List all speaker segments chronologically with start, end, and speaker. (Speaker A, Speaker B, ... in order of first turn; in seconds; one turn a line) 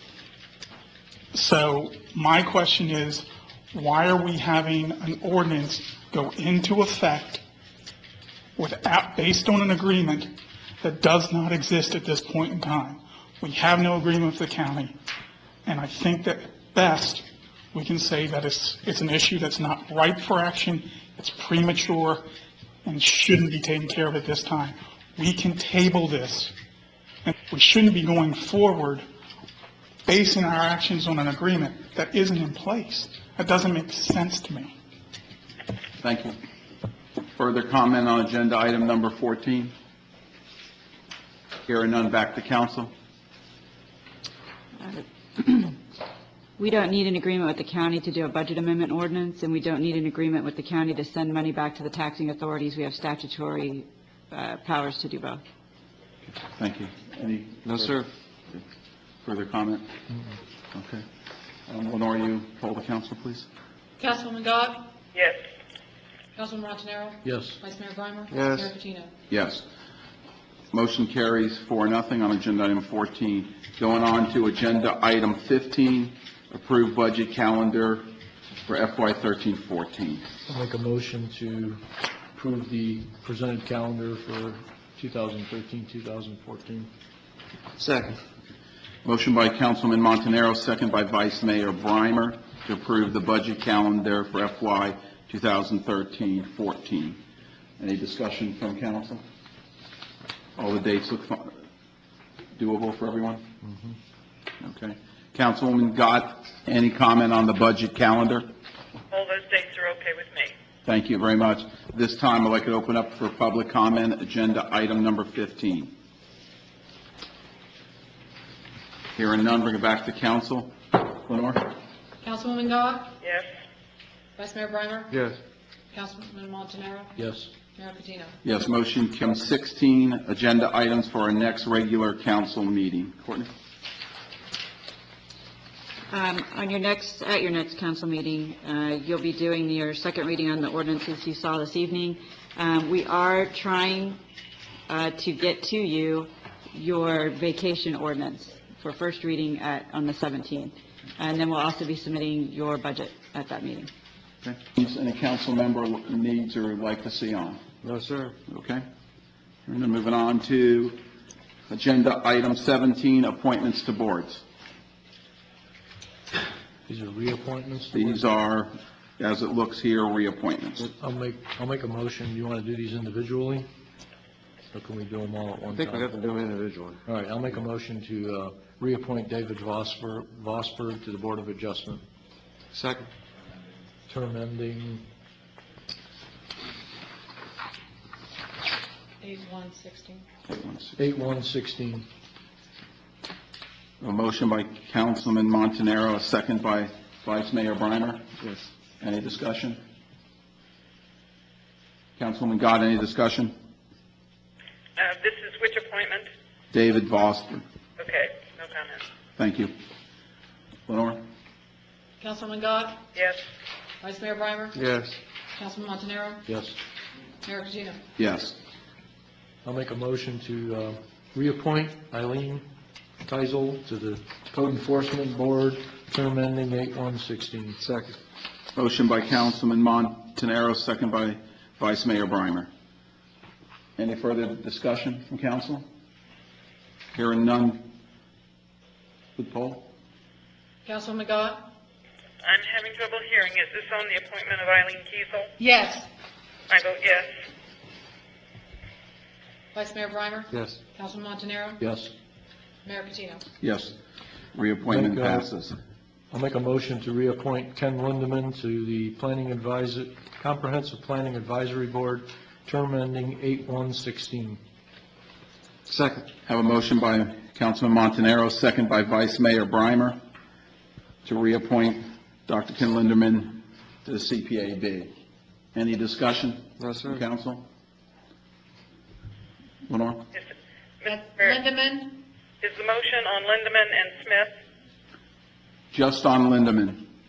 Speaker A: 1.3-7.4
Speaker A: 8.6-14.9
Speaker A: 15.7-22.3
Speaker A: 22.8-26.5
Speaker A: 27.2-29.1
Speaker A: 30.1-34.7
Speaker B: 36.0-36.4
Speaker B: 37.4-39.7
Speaker B: 41.7-42.9
Speaker C: 44.8-45.8
Speaker C: 46.6-55.4
Speaker B: 56.4-58.0
Speaker D: 57.7-58.1
Speaker B: 59.2-59.9
Speaker B: 60.7-61.0
Speaker B: 61.7-63.5
Speaker E: 64.0-65.0
Speaker E: 66.3-69.1
Speaker F: 67.2-67.6
Speaker D: 68.3-68.7
Speaker B: 69.3-69.7
Speaker B: 70.7-78.1
Speaker B: 78.7-80.3
Speaker F: 80.5-81.8
Speaker F: 82.3-86.9
Speaker D: 87.8-88.2
Speaker B: 89.0-97.2
Speaker B: 97.8-99.2
Speaker B: 100.6-101.6
Speaker B: 102.6-103.5
Speaker B: 104.6-108.5
Speaker G: 109.1-110.5
Speaker B: 110.9-115.9
Speaker B: 119.2-121.7
Speaker E: 122.2-123.2
Speaker E: 124.4-125.2
Speaker D: 125.1-125.4
Speaker E: 125.9-127.2
Speaker F: 127.2-127.5
Speaker E: 127.7-128.4
Speaker B: 128.4-133.5
Speaker C: 136.1-144.2
Speaker C: 144.9-153.9
Speaker B: 154.4-157.6
Speaker D: 157.8-158.3
Speaker B: 158.5-158.8
Speaker B: 159.7-161.0
Speaker B: 161.7-164.4
Speaker F: 166.9-168.2
Speaker B: 167.9-170.9
Speaker F: 171.0-173.7
Speaker F: 174.7-176.1
Speaker D: 175.7-177.0
Speaker F: 177.1-182.1
Speaker D: 182.7-183.1
Speaker F: 184.1-185.0
Speaker E: 189.2-190.2
Speaker B: 190.5-191.0
Speaker F: 191.0-192.1
Speaker B: 194.0-198.3
Speaker D: 198.4-198.7
Speaker B: 199.0-199.8
Speaker B: 202.2-203.6
Speaker G: 205.0-206.3
Speaker B: 206.7-207.6
Speaker G: 208.0-209.0
Speaker B: 209.4-209.7
Speaker B: 210.9-211.2
Speaker E: 212.2-213.1
Speaker G: 213.1-213.4
Speaker E: 214.0-214.8
Speaker D: 214.7-215.2
Speaker E: 215.5-216.5
Speaker F: 216.5-216.8
Speaker E: 217.4-218.0
Speaker B: 218.2-218.6
Speaker F: 219.6-222.7
Speaker F: 223.2-227.8
Speaker D: 227.8-228.2
Speaker B: 228.8-232.7
Speaker B: 234.0-235.9
Speaker B: 237.1-237.9
Speaker B: 239.4-239.9
Speaker E: 240.8-241.7
Speaker G: 242.4-245.5
Speaker E: 245.6-246.1
Speaker G: 246.7-247.3
Speaker E: 249.7-251.8
Speaker D: 250.5-250.8
Speaker F: 251.8-252.1
Speaker E: 252.8-253.4
Speaker B: 253.6-253.9
Speaker B: 254.5-255.8
Speaker F: 254.9-255.5
Speaker F: 256.3-264.6
Speaker D: 265.9-266.3
Speaker B: 266.5-270.2
Speaker B: 271.2-275.1
Speaker B: 275.7-277.6
Speaker D: 276.8-277.2
Speaker B: 279.9-280.3
Speaker G: 281.0-281.6
Speaker E: 281.1-282.2
Speaker G: 282.6-284.5
Speaker B: 285.9-287.1